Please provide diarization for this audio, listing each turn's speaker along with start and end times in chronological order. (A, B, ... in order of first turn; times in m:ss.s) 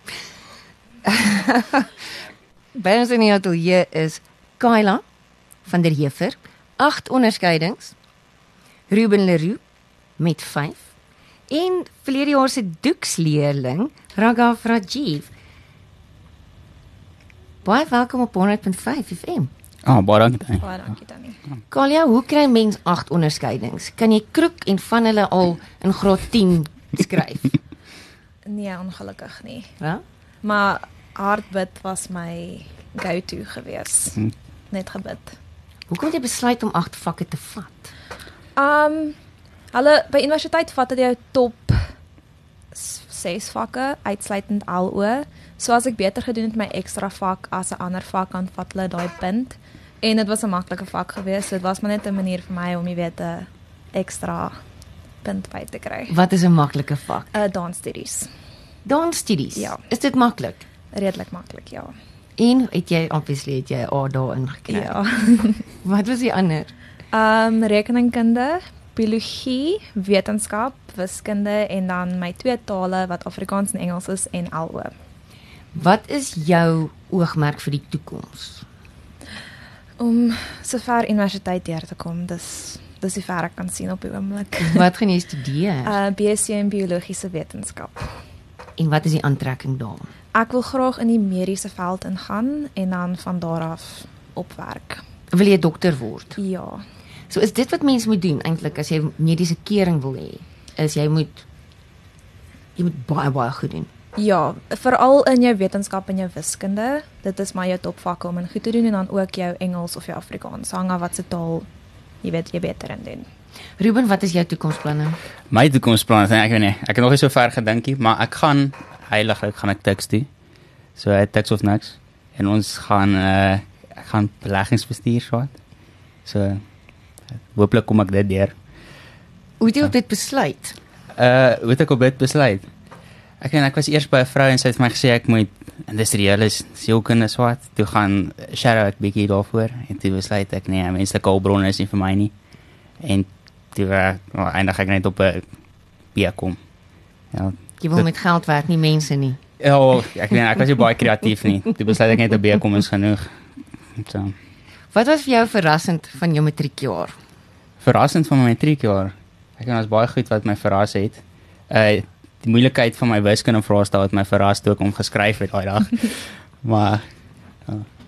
0:01.1-0:01.9 A
0:02.7-0:05.0 A
0:05.6-0:07.9 A
0:08.9-0:09.6 A
0:10.2-0:10.9 A
0:11.5-0:15.3 A
0:17.6-0:19.5 A
0:19.8-0:20.6 B
0:20.6-0:21.4 C
0:21.7-0:27.5 A
0:28.5-0:29.7 C
0:30.4-0:35.3 C
0:35.9-0:37.9 A
0:38.6-0:39.2 C
0:39.7-0:41.8 C
0:42.7-0:54.5 C
0:55.2-0:56.1 C
0:56.1-0:57.3 A
0:57.3-0:58.3 C
0:58.8-1:00.6 A
1:00.9-1:01.9 C
1:02.4-1:05.0 A
1:04.7-1:05.6 C
1:05.8-1:06.7 A
1:07.1-1:14.9 C
1:15.7-1:18.6 A
1:20.0-1:24.9 C
1:24.7-1:26.0 A
1:25.8-1:28.1 C
1:28.8-1:30.1 A
1:30.3-1:35.0 C
1:35.3-1:36.4 A
1:36.4-1:36.8 C
1:37.3-1:41.4 A
1:42.8-1:43.9 A
1:44.2-1:51.6 C
1:52.2-1:53.2 C
1:53.8-1:55.2 A
1:55.5-2:00.3 B
2:01.0-2:05.5 B
2:06.2-2:06.6 B
2:07.5-2:08.5 B
2:09.6-2:10.8 A
2:11.2-2:12.6 B
2:13.4-2:22.3 B
2:23.0-2:25.4 B
2:26.1-2:26.6 B
2:27.3-2:28.1 B
2:27.8-2:29.4 A
2:29.6-2:33.3 B
2:34.0-2:34.3 B
2:34.9-2:37.1 A
2:37.8-2:47.0 B